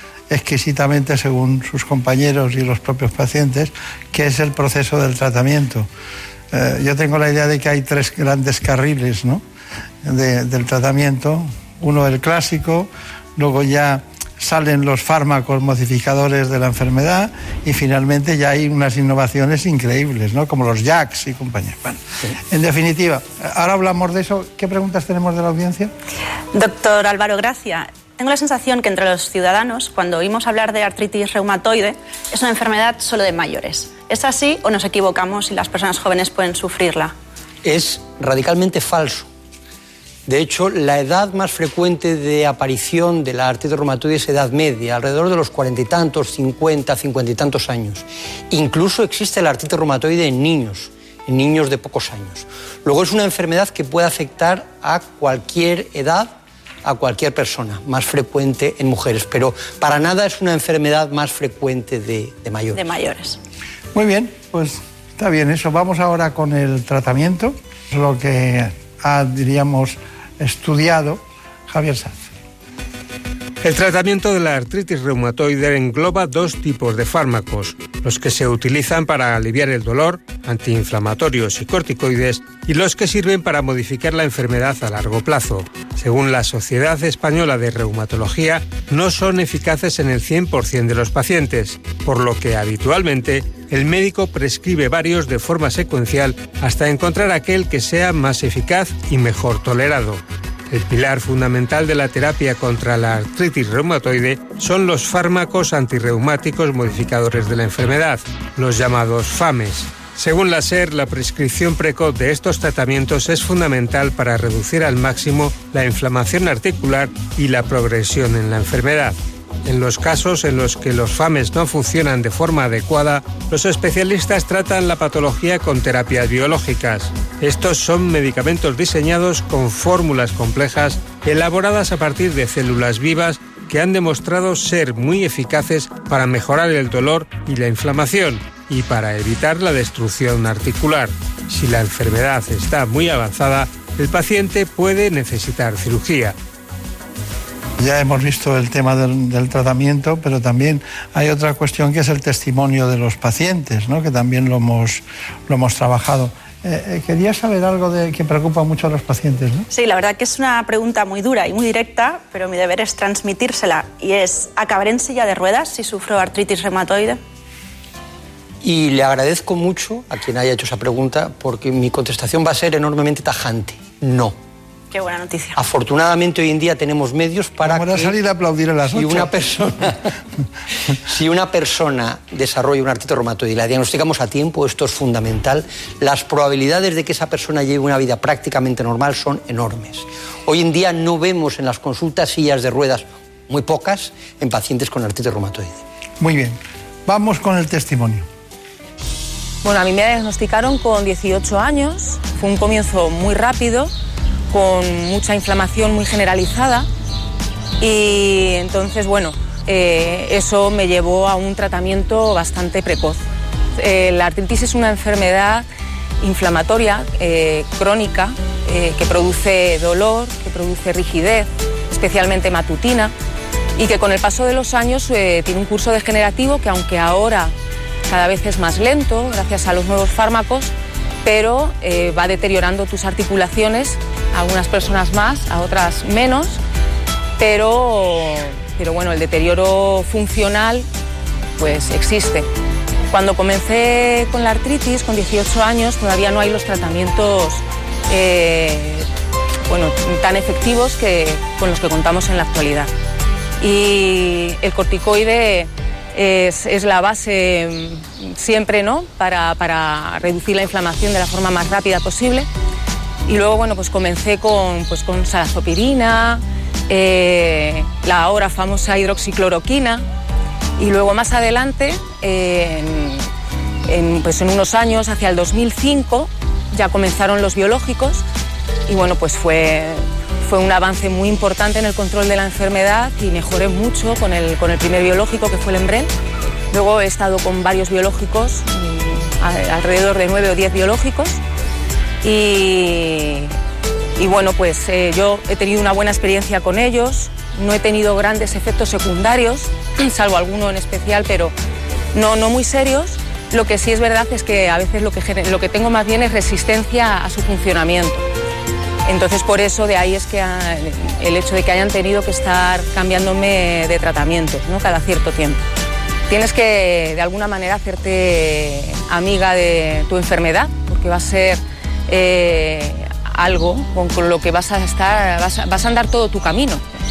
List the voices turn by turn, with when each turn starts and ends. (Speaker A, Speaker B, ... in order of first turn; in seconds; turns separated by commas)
Speaker A: 0.3-5.9, Speaker A: 6.5-9.4, Speaker A: 10.0-25.9, Speaker B: 26.6-27.6, Speaker B: 28.4-31.8, Speaker B: 32.4-37.0, Speaker C: 37.6-39.3, Speaker C: 40.3-56.3, Speaker C: 56.8-62.8, Speaker B: 62.7-63.3, Speaker A: 63.9-72.2, Speaker D: 73.6-146.3, Speaker A: 147.8-159.7, Speaker B: 159.8-161.3, Speaker B: 161.8-167.0, Speaker C: 168.6-174.3, Speaker B: 174.9-175.6, Speaker C: 175.6-178.2, Speaker A: 177.6-179.8, Speaker C: 178.9-179.8, Speaker C: 181.1-195.8, Speaker A: 196.2-198.3, Speaker E: 199.6-203.9, Speaker E: 204.5-206.9, Speaker E: 207.8-213.2, Speaker E: 213.8-215.7, Speaker E: 216.2-223.1, Speaker E: 223.8-227.5, Speaker E: 228.1-230.7, Speaker E: 231.2-236.6, Speaker E: 237.4-240.9, Speaker E: 241.6-242.5, Speaker E: 243.1-249.1, Speaker E: 249.7-252.9, Speaker E: 253.6-262.5, Speaker E: 263.3-270.1, Speaker E: 270.8-273.3, Speaker E: 273.9-278.2, Speaker E: 278.9-286.1, Speaker E: 286.7-291.4, Speaker E: 292.2-293.5, Speaker E: 294.2-301.5, Speaker E: 302.1-308.2, Speaker E: 309.1-315.6, Speaker E: 316.3-326.8